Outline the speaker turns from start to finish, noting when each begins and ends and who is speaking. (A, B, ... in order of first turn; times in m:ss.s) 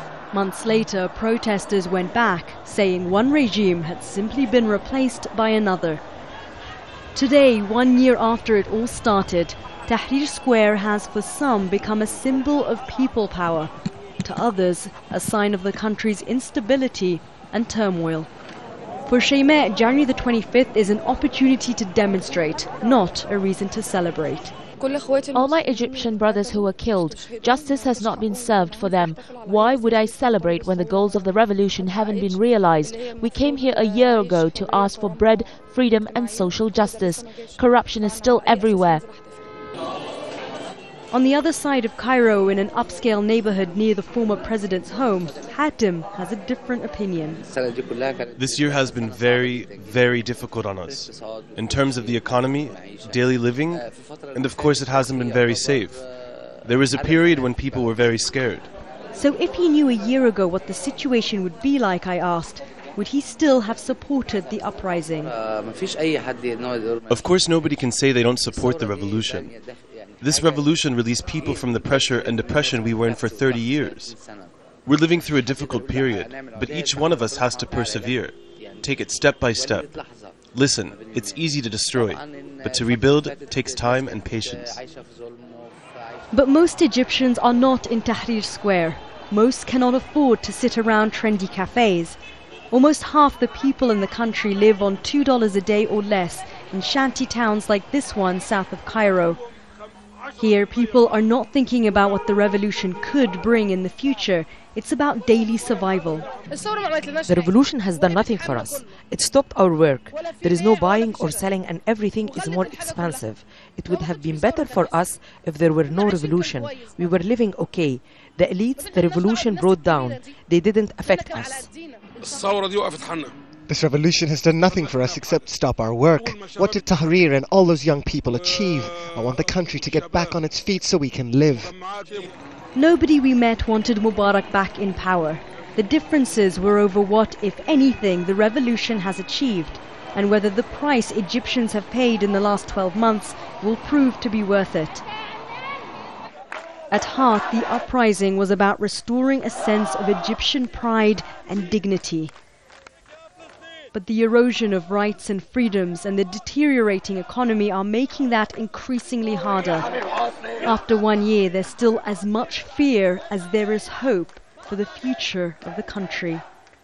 0:00.3-0:06.0 A
0:07.1-0:18.3 A
0:19.1-0:24.5 A
0:25.3-0:39.0 B
0:41.1-0:47.4 A
0:48.4-0:56.0 C
0:56.6-0:58.7 C
0:59.2-1:05.3 A
1:07.1-1:09.6 C
1:10.2-1:14.2 C
1:14.9-1:19.9 C
1:20.5-1:24.8 C
1:26.3-1:32.2 A
1:32.7-1:39.4 A
1:40.4-1:46.3 A
1:47.2-2:01.7 D
2:03.7-2:11.8 E
2:12.8-2:25.0 A
2:26.9-2:32.3 A
2:33.9-2:39.9 A
2:40.6-2:46.4 A